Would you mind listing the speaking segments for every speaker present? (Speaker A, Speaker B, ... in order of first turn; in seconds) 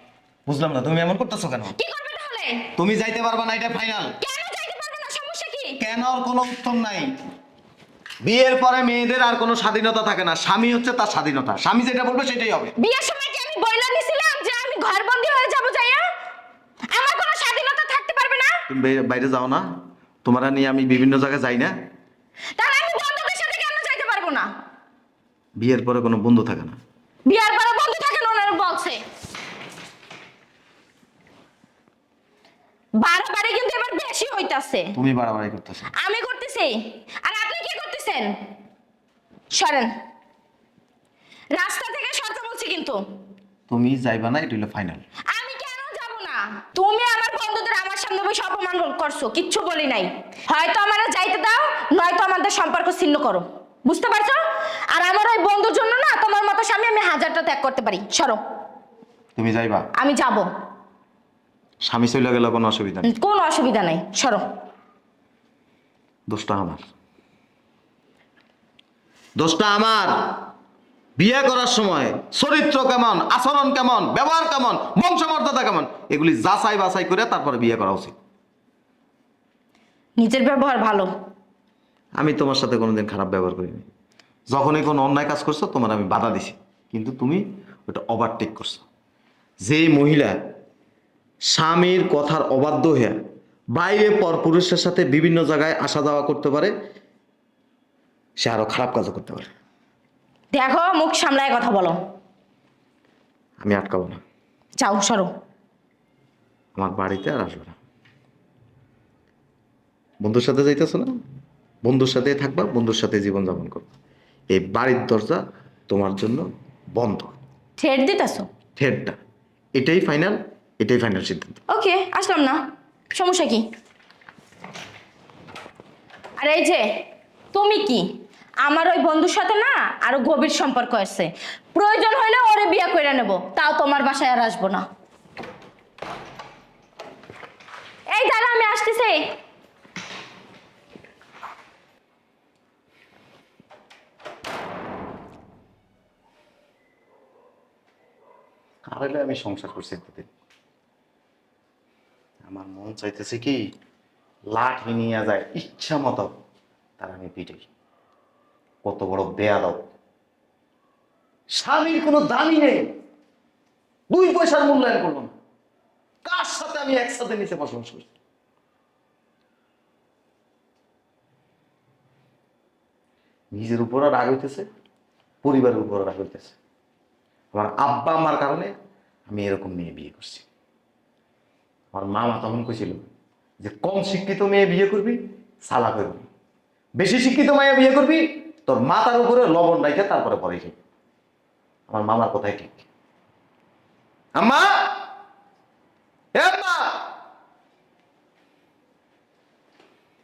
Speaker A: 0.5-1.8, 2.8-4.1, 5.8-7.1, 8.2-12.7, 18.7-19.6, 20.2-21.7, 25.6-26.8, 35.0-35.9, 43.7-45.0, 59.4-59.9, 61.8-63.1, 66.3-66.8, 69.4-70.4, 71.2-78.1, 82.2-83.9, 84.5-88.8, 89.6-90.3, 91.5-93.2, 93.7-96.7, 98.4-99.5, 103.6-104.2, 106.7-107.7, 110.2-111.1, 111.8-113.9, 114.5-117.3, 118.8-119.2, 119.8-121.6, 148.8-150.3, 152.4-153.6, 154.5-156.3, 157.0-157.7, 158.8-159.8, 161.5-162.8, 164.1-165.3, 166.2-168.1, 173.5-174.7, 175.4-176.6, 177.5-178.7, 179.3-180.4, 181.9-183.0, 183.6-186.2, 187.0-190.8, 191.9-192.8, 194.4-194.9, 196.3-197.0
Speaker B: 1.8-2.7, 4.2-5.8, 12.8-16.1, 16.9-18.6, 22.6-24.5, 27.2-29.0, 33.0-34.9, 35.9-38.3, 39.5-39.9, 41.5-43.0, 45.3-54.4, 54.9-58.4, 60.0-60.5, 63.0-64.4, 80.2-81.1, 100.5-102.0, 104.8-105.3, 117.8-118.5, 121.7-123.7, 126.4-126.8, 127.5-128.1, 128.6-134.8, 138.1-139.2